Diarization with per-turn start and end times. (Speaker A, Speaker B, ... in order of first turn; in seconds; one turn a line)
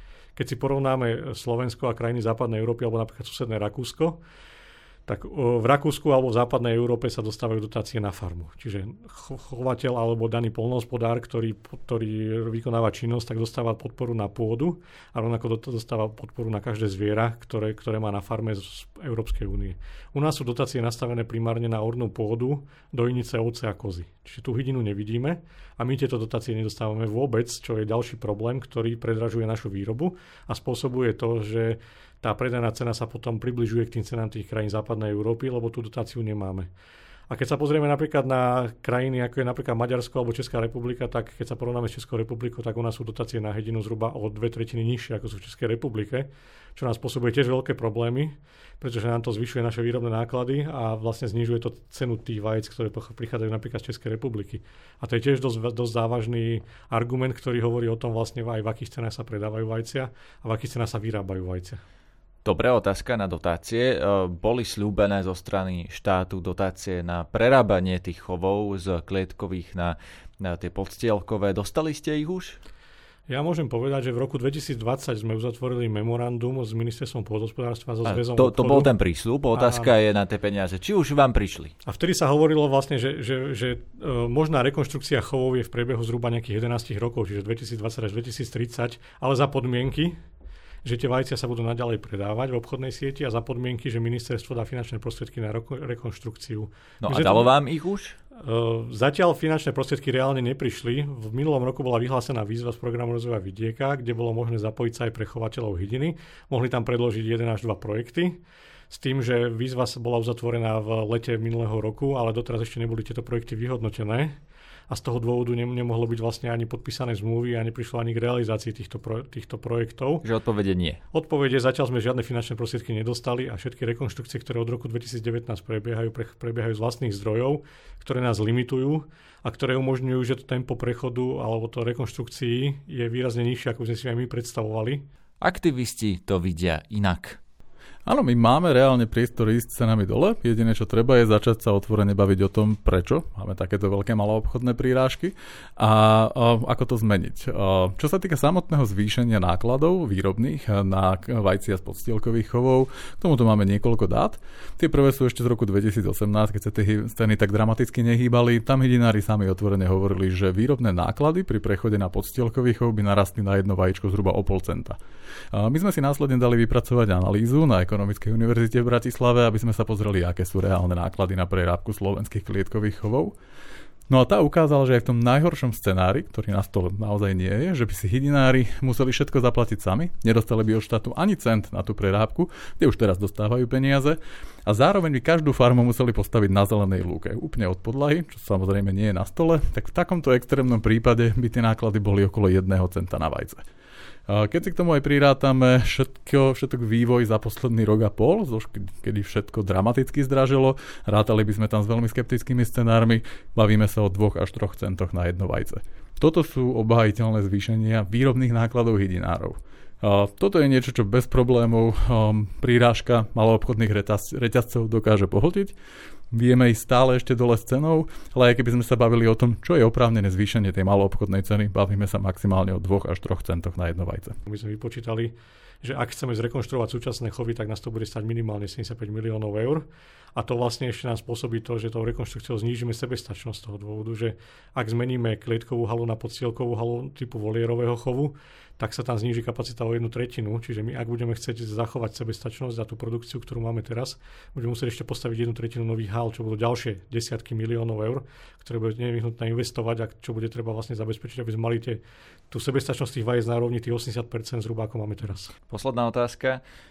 Speaker A: 0.4-4.2
Speaker A: 5.1-36.7
Speaker A: 37.3-61.8
Speaker B: 62.5-72.6
Speaker A: 73.3-78.9
Speaker B: 78.0-81.7
Speaker A: 79.5-79.9
Speaker A: 81.9-90.2
Speaker A: 90.8-97.5
Speaker B: 97.0-98.2
Speaker A: 98.4-114.4
Speaker A: 114.9-120.2
Speaker B: 120.2-121.0
Speaker A: 121.1-135.0
Speaker B: 135.4-137.4
Speaker C: 138.1-165.0
Speaker C: 165.5-173.4
Speaker C: 174.1-193.6
Speaker C: 194.3-215.8
Speaker C: 216.3-224.4
Speaker A: 224.5-255.5
Speaker B: 255.7-256.6